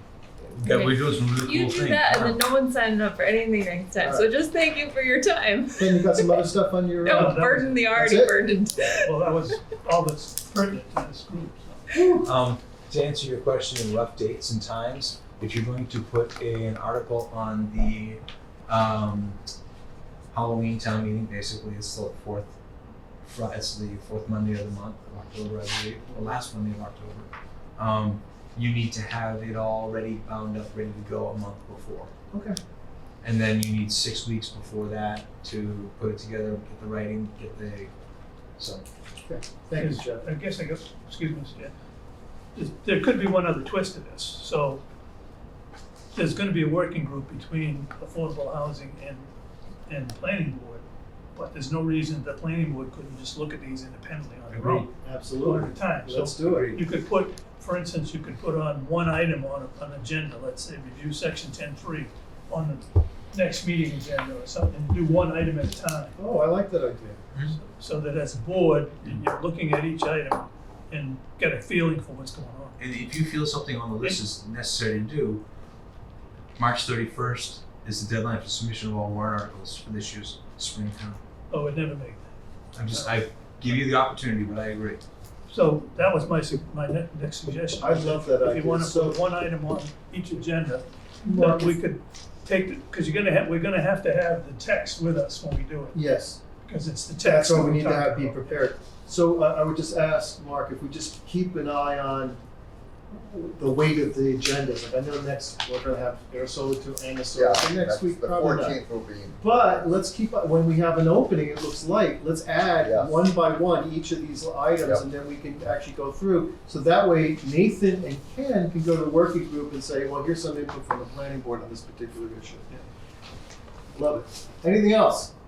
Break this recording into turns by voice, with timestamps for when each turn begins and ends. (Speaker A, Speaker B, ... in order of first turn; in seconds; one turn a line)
Speaker A: 0.4-2.4
Speaker B: 0.6-6.4
Speaker C: 4.0-4.3
Speaker C: 5.8-8.4
Speaker B: 7.0-9.2
Speaker D: 7.1-7.8
Speaker D: 9.0-12.1
Speaker C: 11.9-12.3
Speaker A: 12.2-19.4
Speaker A: 20.3-22.5
Speaker A: 23.2-32.1
Speaker C: 32.3-32.6
Speaker A: 33.2-37.9
Speaker A: 38.6-38.9
Speaker C: 39.2-40.3
Speaker D: 39.8-41.7
Speaker D: 42.5-44.8
Speaker D: 46.1-49.3
Speaker D: 49.9-50.8
Speaker D: 51.4-54.9
Speaker A: 54.5-54.9
Speaker C: 55.0-56.7
Speaker D: 55.4-66.2
Speaker A: 56.4-56.8
Speaker C: 66.2-67.3
Speaker D: 67.6-72.8
Speaker A: 72.8-75.4
Speaker A: 76.6-81.2
Speaker D: 81.5-83.2
Speaker A: 82.8-85.0
Speaker D: 85.5-96.0
Speaker C: 87.8-89.2
Speaker C: 91.2-91.8
Speaker C: 95.9-96.4
Speaker D: 96.6-98.7
Speaker C: 97.2-102.4
Speaker C: 103.1-108.8
Speaker E: 107.3-109.8
Speaker C: 109.3-122.8
Speaker E: 112.8-113.2
Speaker C: 123.9-125.3